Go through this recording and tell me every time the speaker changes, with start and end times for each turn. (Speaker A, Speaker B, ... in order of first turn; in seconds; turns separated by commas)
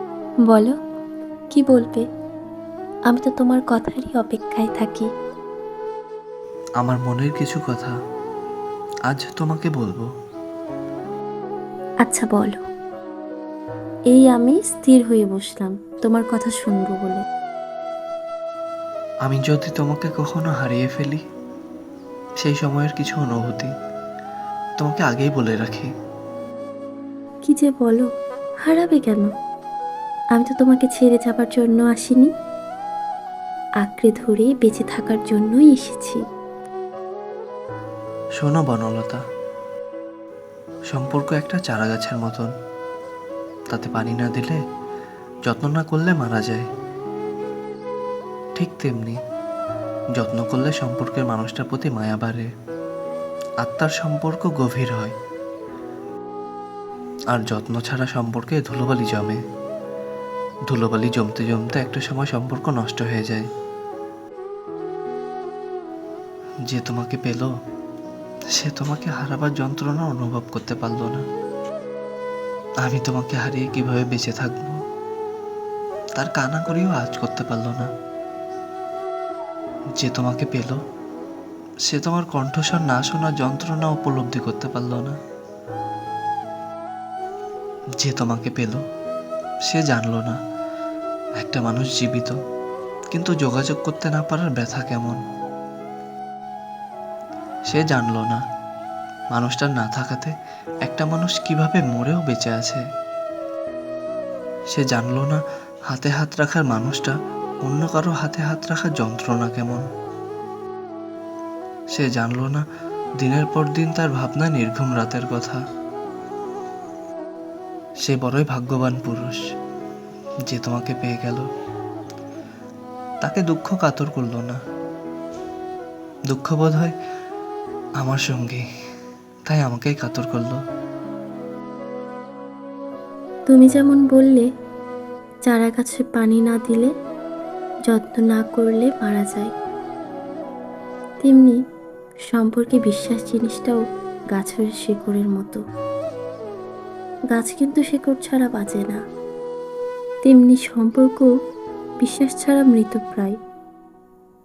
Speaker A: 0.5-0.7, Speaker A: 1.5-2.0, Speaker A: 3.1-5.1, Speaker B: 6.8-7.9, Speaker B: 9.1-10.1, Speaker A: 12.0-12.6, Speaker A: 14.1-17.2, Speaker B: 19.2-21.2, Speaker B: 22.4-23.7, Speaker B: 24.8-25.9, Speaker A: 27.5-28.1, Speaker A: 28.6-29.3, Speaker A: 30.4-32.3, Speaker A: 33.8-36.2, Speaker B: 38.4-39.2, Speaker B: 40.9-42.5, Speaker B: 43.7-44.6, Speaker B: 45.5-46.7, Speaker B: 48.5-49.2, Speaker B: 50.2-52.5, Speaker B: 53.6-55.1, Speaker B: 57.3-59.4, Speaker B: 60.7-63.5, Speaker B: 66.7-67.5, Speaker B: 68.5-71.2, Speaker B: 72.8-74.8, Speaker B: 76.2-77.9, Speaker B: 80.0-80.8, Speaker B: 81.9-85.2, Speaker B: 88.0-88.8, Speaker B: 89.7-90.4, Speaker B: 91.4-92.3, Speaker B: 93.1-95.2, Speaker B: 97.7-98.4, Speaker B: 99.3-102.8, Speaker B: 104.7-109.8, Speaker B: 111.9-112.6, Speaker B: 113.2-115.6, Speaker B: 118.0-119.4, Speaker B: 120.5-121.5, Speaker B: 123.2-124.6, Speaker B: 126.3-126.9, Speaker B: 128.0-128.6, Speaker B: 129.5-130.6, Speaker A: 133.5-134.4, Speaker A: 135.5-136.9, Speaker A: 137.9-139.5, Speaker A: 141.2-141.6, Speaker A: 142.3-143.8, Speaker A: 144.3-145.6, Speaker A: 147.3-149.0, Speaker A: 150.2-151.3, Speaker A: 152.0-153.3